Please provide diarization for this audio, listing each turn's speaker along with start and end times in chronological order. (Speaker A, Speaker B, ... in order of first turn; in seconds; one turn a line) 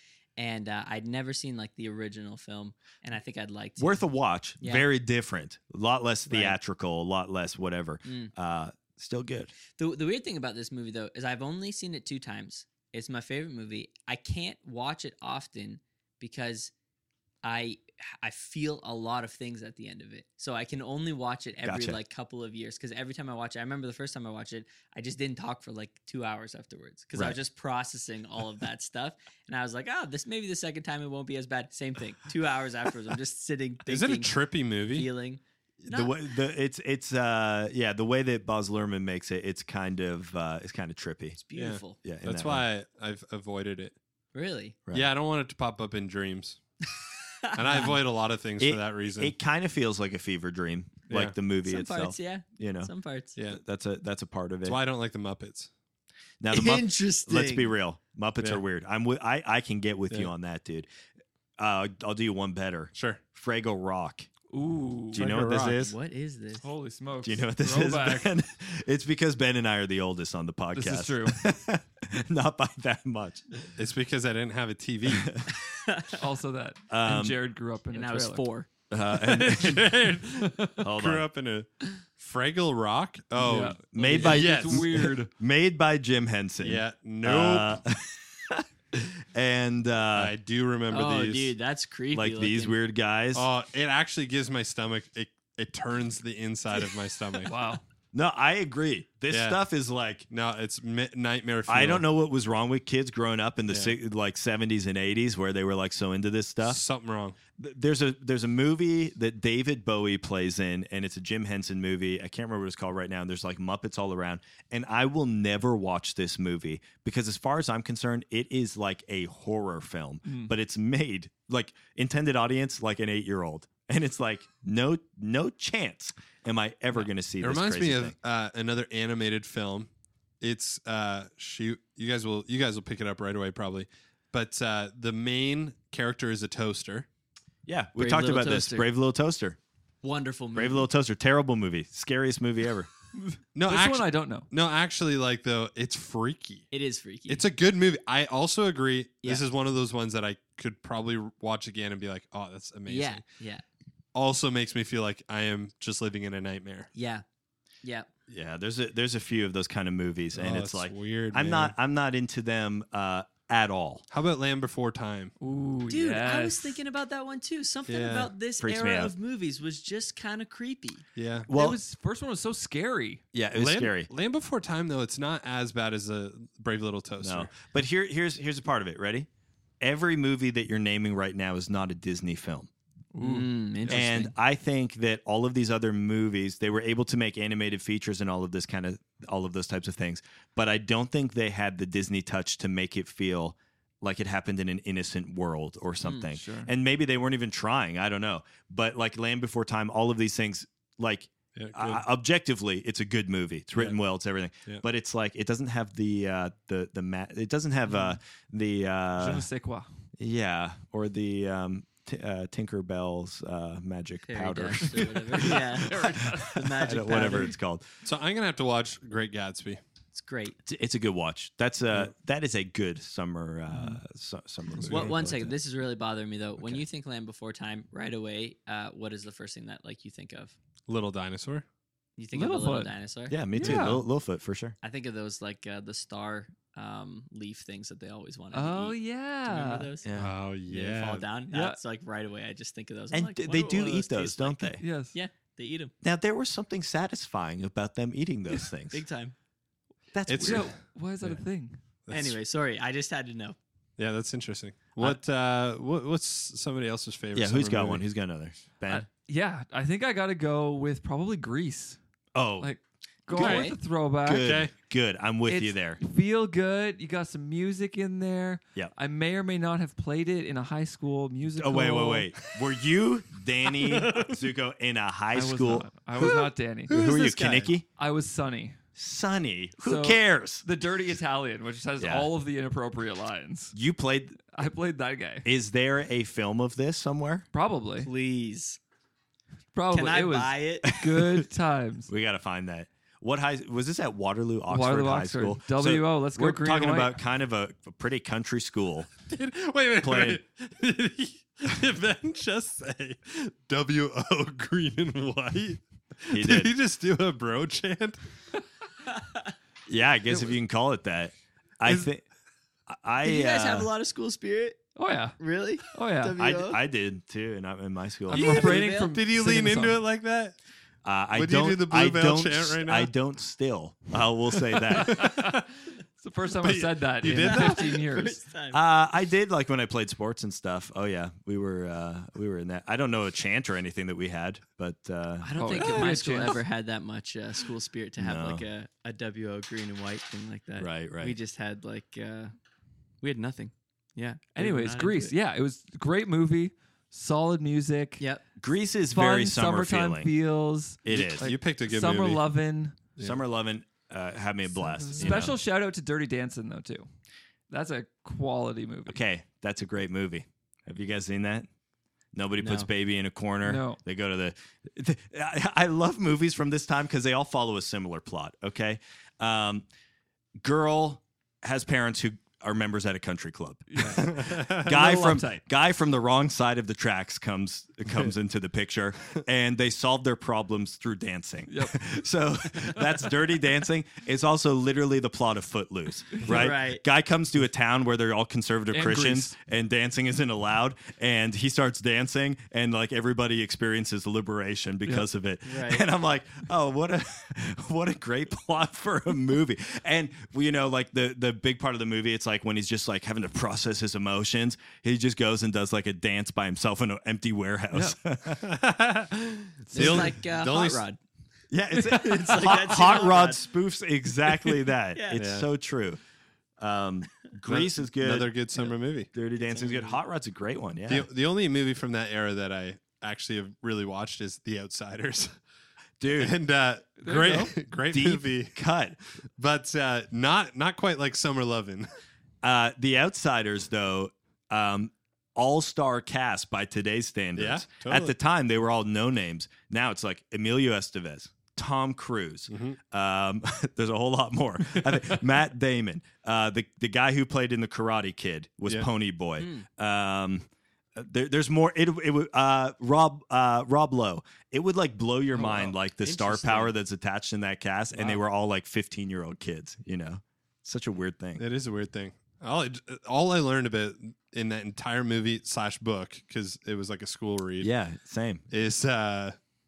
Speaker A: 0.4-4.0
Speaker B: 3.8-9.5
Speaker A: 4.6-4.9
Speaker A: 6.3-6.6
Speaker A: 8.1-8.3
Speaker A: 9.7-16.7
Speaker A: 17.4-36.2
Speaker B: 21.6-22.0
Speaker C: 33.9-35.1
Speaker B: 35.9-41.4
Speaker A: 41.4-42.0
Speaker C: 41.6-43.9
Speaker B: 42.0-42.7
Speaker A: 44.3-44.8
Speaker C: 44.9-46.6
Speaker A: 47.4-47.9
Speaker C: 47.5-49.3
Speaker B: 48.6-52.9
Speaker C: 51.1-51.4
Speaker A: 51.6-53.4
Speaker C: 53.4-53.6
Speaker B: 53.5-54.8
Speaker C: 54.6-55.7
Speaker B: 56.4-60.9
Speaker A: 56.5-57.8
Speaker B: 61.6-64.3
Speaker C: 62.9-63.2
Speaker D: 64.5-65.2
Speaker B: 65.1-65.9
Speaker C: 65.1-65.8
Speaker A: 65.8-66.6
Speaker D: 66.6-68.3
Speaker B: 67.2-73.7
Speaker D: 70.8-71.4
Speaker C: 73.8-75.3
Speaker B: 75.1-75.5
Speaker A: 75.7-76.1
Speaker D: 76.1-78.4
Speaker B: 76.9-77.4
Speaker A: 77.9-78.7
Speaker B: 78.9-80.0
Speaker C: 79.2-85.0
Speaker B: 80.8-81.2
Speaker D: 83.4-85.3
Speaker B: 83.9-90.3
Speaker C: 86.6-87.8
Speaker C: 90.1-91.5
Speaker A: 90.9-92.8
Speaker B: 92.1-93.5
Speaker C: 93.3-97.5
Speaker D: 97.4-97.8
Speaker B: 98.1-100.3
Speaker C: 99.3-99.6
Speaker C: 100.3-102.0
Speaker B: 101.7-106.8
Speaker C: 103.7-103.9
Speaker C: 106.6-107.4
Speaker B: 107.6-128.1
Speaker D: 120.3-120.5
Speaker C: 127.4-129.9
Speaker C: 130.4-137.1
Speaker B: 137.7-139.6
Speaker A: 137.9-138.9
Speaker A: 140.0-140.9
Speaker B: 140.6-142.9
Speaker D: 143.2-144.5
Speaker C: 143.6-146.7
Speaker A: 146.7-147.4
Speaker C: 147.3-153.2
Speaker A: 152.8-153.6
Speaker C: 154.1-156.9
Speaker A: 156.9-157.2
Speaker A: 157.8-158.1
Speaker B: 158.3-164.1
Speaker C: 160.3-161.7
Speaker C: 164.1-165.3
Speaker D: 165.4-166.8
Speaker A: 165.9-171.1
Speaker C: 167.9-168.3
Speaker B: 168.6-169.1
Speaker C: 171.2-171.5
Speaker B: 171.5-171.8
Speaker D: 171.5-173.2
Speaker B: 173.3-174.1
Speaker C: 173.6-177.5
Speaker B: 177.2-179.3
Speaker B: 179.8-182.7
Speaker D: 183.1-183.9
Speaker A: 183.2-184.3
Speaker B: 183.9-209.5
Speaker D: 196.1-196.7
Speaker C: 201.6-202.0
Speaker D: 209.2-209.9
Speaker B: 210.2-217.8
Speaker A: 214.3-217.6
Speaker D: 215.6-216.5
Speaker C: 218.0-219.8
Speaker A: 220.1-220.6
Speaker B: 220.7-225.6
Speaker D: 223.7-223.9
Speaker C: 224.8-225.1
Speaker A: 224.9-230.6
Speaker C: 230.9-231.7
Speaker A: 232.2-233.4
Speaker D: 232.3-232.9
Speaker B: 233.3-234.8
Speaker D: 233.5-234.0
Speaker C: 233.6-234.0
Speaker A: 234.8-238.9
Speaker D: 238.5-239.9
Speaker A: 239.5-240.1
Speaker B: 240.1-240.3
Speaker C: 240.2-241.2
Speaker A: 240.7-245.9
Speaker D: 241.5-241.8
Speaker B: 243.1-244.8
Speaker D: 244.8-245.2
Speaker B: 246.0-249.0
Speaker A: 248.9-249.3
Speaker B: 250.1-250.7
Speaker C: 250.3-251.4
Speaker D: 250.4-251.8
Speaker C: 252.1-252.4
Speaker A: 252.1-253.6
Speaker C: 254.0-258.0
Speaker B: 257.3-259.1
Speaker D: 258.9-262.0
Speaker B: 262.3-262.7
Speaker D: 262.6-264.7
Speaker B: 263.3-266.0
Speaker C: 263.4-263.7
Speaker A: 263.4-263.7
Speaker C: 264.4-264.7
Speaker D: 265.5-272.4
Speaker B: 271.6-276.3
Speaker D: 275.3-277.0
Speaker C: 276.2-277.7
Speaker B: 276.9-277.8
Speaker D: 278.0-278.8
Speaker B: 278.9-280.6
Speaker D: 279.8-283.7
Speaker B: 282.0-282.3
Speaker B: 283.7-284.4
Speaker D: 284.5-285.5
Speaker B: 285.4-287.4
Speaker D: 287.5-288.1
Speaker A: 288.0-288.8
Speaker D: 289.7-292.1
Speaker A: 289.9-290.9
Speaker B: 290.9-291.4
Speaker B: 292.1-299.1
Speaker D: 294.7-297.2
Speaker C: 299.3-308.2
Speaker B: 300.0-300.4
Speaker B: 306.3-306.7
Speaker A: 309.1-309.5
Speaker B: 309.9-312.2
Speaker B: 312.9-313.9
Speaker A: 313.2-314.8
Speaker D: 314.9-316.4
Speaker A: 315.4-316.8
Speaker B: 316.4-318.5
Speaker D: 318.3-320.0
Speaker A: 318.3-319.1
Speaker C: 318.3-320.6
Speaker B: 321.0-325.3
Speaker C: 321.3-323.1
Speaker C: 324.7-325.6
Speaker D: 324.9-325.7
Speaker D: 326.2-328.4
Speaker C: 326.6-327.9
Speaker A: 327.4-328.8
Speaker B: 328.7-336.1
Speaker A: 335.4-342.5
Speaker D: 335.6-336.6
Speaker B: 338.2-338.6
Speaker B: 340.8-341.3
Speaker A: 343.2-345.3
Speaker D: 344.6-348.2
Speaker B: 348.6-350.3
Speaker D: 349.1-353.0
Speaker B: 351.1-351.5
Speaker C: 351.1-352.4
Speaker B: 353.2-355.6
Speaker D: 355.0-357.1
Speaker D: 357.7-359.2
Speaker B: 359.1-361.7
Speaker B: 362.3-369.9
Speaker A: 362.6-362.9
Speaker D: 363.6-364.0
Speaker B: 370.6-408.7
Speaker D: 373.9-375.6
Speaker C: 374.0-374.9
Speaker D: 381.7-382.1
Speaker D: 386.3-386.6
Speaker A: 386.4-387.0
Speaker D: 388.9-389.5
Speaker A: 395.7-396.1
Speaker C: 408.6-411.0
Speaker A: 409.9-411.2
Speaker B: 409.9-410.2
Speaker B: 411.7-416.2
Speaker A: 411.9-413.6
Speaker A: 415.1-415.4
Speaker C: 415.3-415.7
Speaker B: 416.8-421.3
Speaker C: 417.7-419.3
Speaker A: 419.6-420.2
Speaker C: 421.1-425.6
Speaker B: 426.2-426.6
Speaker C: 426.4-428.8
Speaker D: 427.2-427.7
Speaker B: 428.1-429.2
Speaker C: 429.6-432.1
Speaker B: 432.6-461.6
Speaker C: 437.6-438.3
Speaker C: 442.7-443.0
Speaker A: 449.6-449.9
Speaker A: 456.2-456.9
Speaker C: 458.1-458.4
Speaker C: 461.6-467.9
Speaker B: 467.8-468.7
Speaker C: 468.7-469.6